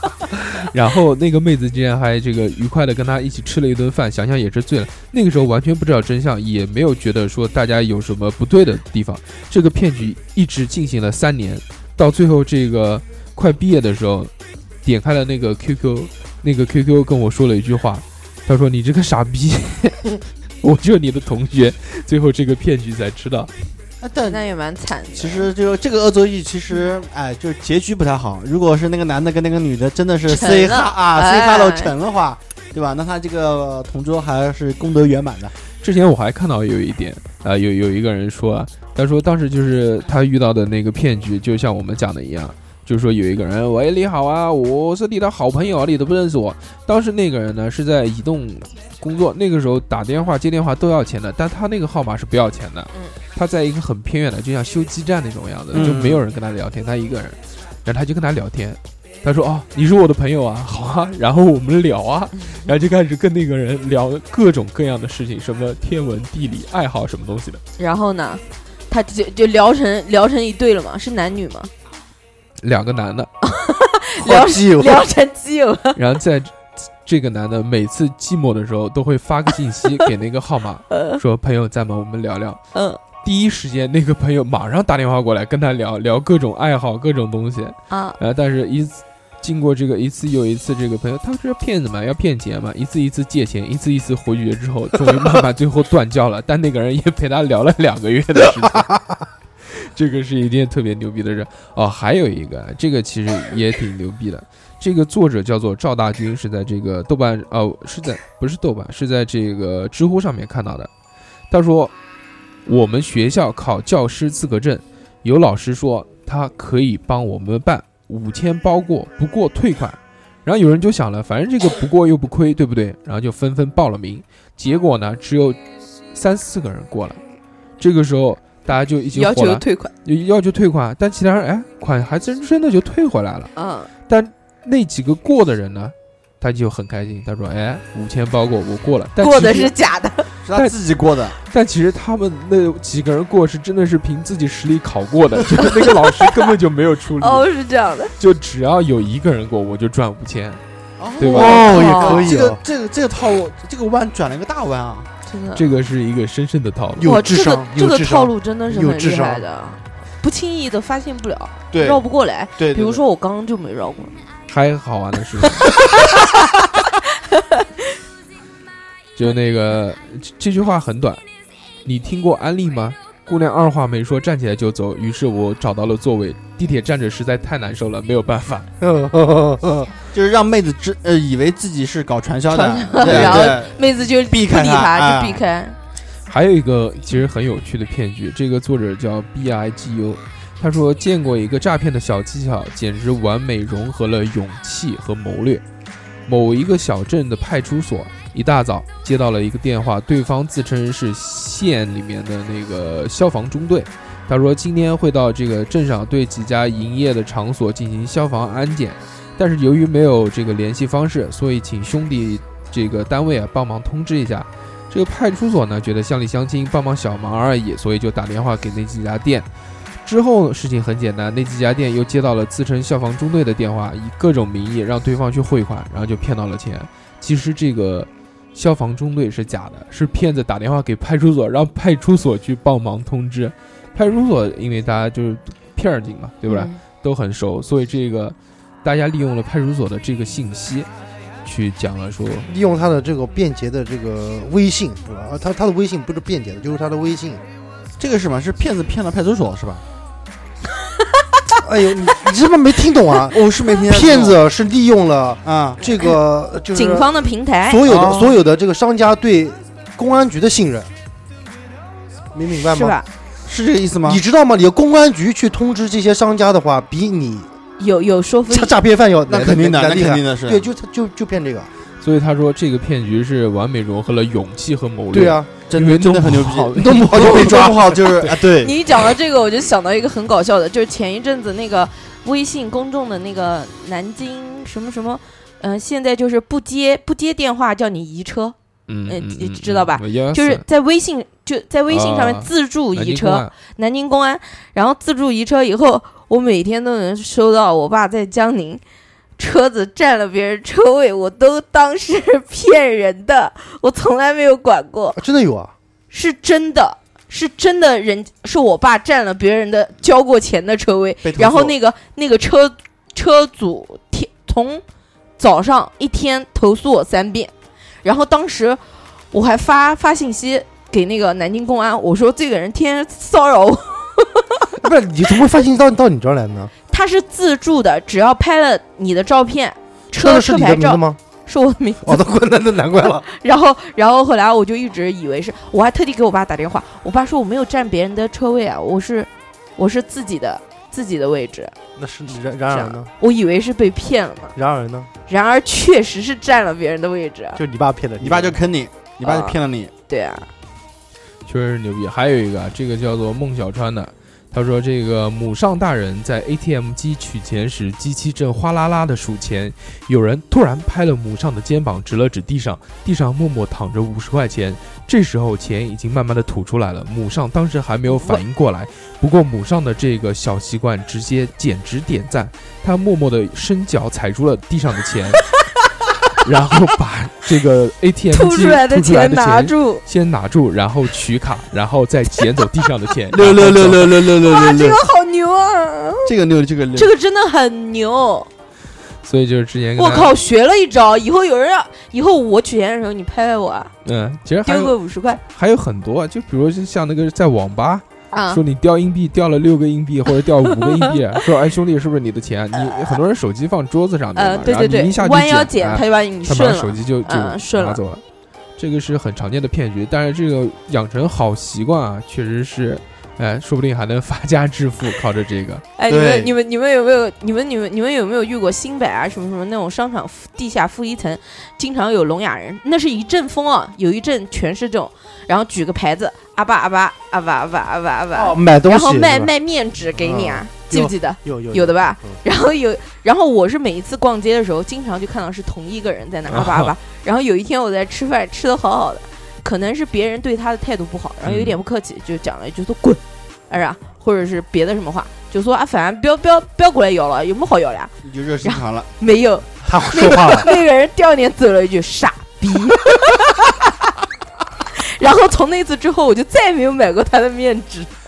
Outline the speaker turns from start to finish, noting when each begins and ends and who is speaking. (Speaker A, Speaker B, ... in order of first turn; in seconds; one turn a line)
Speaker A: 0.3-14.3
Speaker A: 14.8-20.1
Speaker A: 20.6-23.5
Speaker B: 24.0-24.4
Speaker C: 24.3-25.5
Speaker B: 25.1-35.5
Speaker C: 30.3-31.9
Speaker A: 35.8-67.6
Speaker B: 55.7-56.2
Speaker C: 67.8-71.7
Speaker A: 72.6-73.3
Speaker C: 73.4-76.0
Speaker D: 74.2-75.0
Speaker A: 75.9-82.6
Speaker C: 80.9-81.2
Speaker C: 82.7-83.0
Speaker A: 83.2-99.0
Speaker C: 87.9-88.2
Speaker A: 99.7-110.9
Speaker A: 111.5-111.9
Speaker A: 112.7-125.6
Speaker A: 126.1-127.2
Speaker A: 127.8-133.5
Speaker C: 129.1-129.9
Speaker C: 133.6-133.9
Speaker A: 134.1-139.7
Speaker C: 139.2-140.3
Speaker B: 140.4-141.4
Speaker A: 141.4-147.5
Speaker C: 145.8-146.4
Speaker C: 147.2-148.1
Speaker A: 148.2-150.6
Speaker B: 151.0-155.1
Speaker A: 151.2-151.7
Speaker D: 151.3-152.6
Speaker C: 151.3-152.4
Speaker C: 155.2-155.7
Speaker A: 155.5-157.1
Speaker D: 157.0-159.4
Speaker C: 157.0-164.2
Speaker B: 161.7-162.0
Speaker B: 162.6-163.0
Speaker A: 164.5-165.7
Speaker C: 165.7-167.8
Speaker A: 169.1-171.2
Speaker A: 171.8-178.7
Speaker D: 178.8-179.9
Speaker B: 180.1-185.4
Speaker C: 182.5-185.8
Speaker A: 186.3-195.6
Speaker A: 196.3-219.5
Speaker A: 220.0-240.9
Speaker C: 236.5-236.8
Speaker A: 241.4-242.5
Speaker D: 242.5-247.4
Speaker B: 248.0-249.8
Speaker D: 251.6-260.9
Speaker B: 253.3-254.4
Speaker B: 255.4-255.8
Speaker C: 256.7-258.3
Speaker B: 257.8-258.4
Speaker D: 262.3-263.0
Speaker C: 262.5-263.1
Speaker B: 263.4-264.2
Speaker D: 264.0-267.5
Speaker C: 267.8-268.7
Speaker D: 268.5-271.7
Speaker B: 269.3-270.6
Speaker A: 272.0-277.6
Speaker D: 275.1-275.5
Speaker B: 275.7-278.8
Speaker D: 277.1-278.0
Speaker C: 278.6-288.6
Speaker A: 288.9-290.6
Speaker C: 289.1-298.8
Speaker A: 291.9-293.5
Speaker C: 299.4-305.2
Speaker D: 305.2-305.7
Speaker C: 306.1-314.8
Speaker B: 311.2-311.7
Speaker C: 315.4-317.5
Speaker C: 318.0-318.8
Speaker C: 319.3-324.7
Speaker D: 324.8-326.7
Speaker C: 326.9-332.2
Speaker D: 330.1-331.2
Speaker D: 332.0-333.2
Speaker C: 333.0-341.7
Speaker D: 342.0-343.1
Speaker C: 342.7-344.6
Speaker D: 344.5-345.1
Speaker C: 345.3-347.6
Speaker D: 347.6-348.6
Speaker B: 348.2-349.9
Speaker C: 349.2-350.5
Speaker A: 351.4-375.4
Speaker C: 368.1-368.4
Speaker A: 376.4-384.2
Speaker C: 378.3-380.0
Speaker B: 383.3-385.1
Speaker C: 384.2-386.3
Speaker B: 386.2-387.1
Speaker C: 386.9-388.5
Speaker A: 389.2-390.3
Speaker C: 390.0-393.9
Speaker A: 394.0-394.9
Speaker C: 394.6-395.4
Speaker A: 395.5-408.2
Speaker C: 398.3-398.6
Speaker C: 402.8-403.2
Speaker C: 404.4-408.0
Speaker A: 408.8-415.8
Speaker C: 416.0-448.1
Speaker B: 416.1-416.5
Speaker D: 428.3-429.5
Speaker D: 430.1-432.4
Speaker A: 436.5-436.9
Speaker A: 441.4-441.8
Speaker B: 448.2-449.1
Speaker C: 448.6-453.8
Speaker D: 449.8-450.7
Speaker C: 454.9-458.1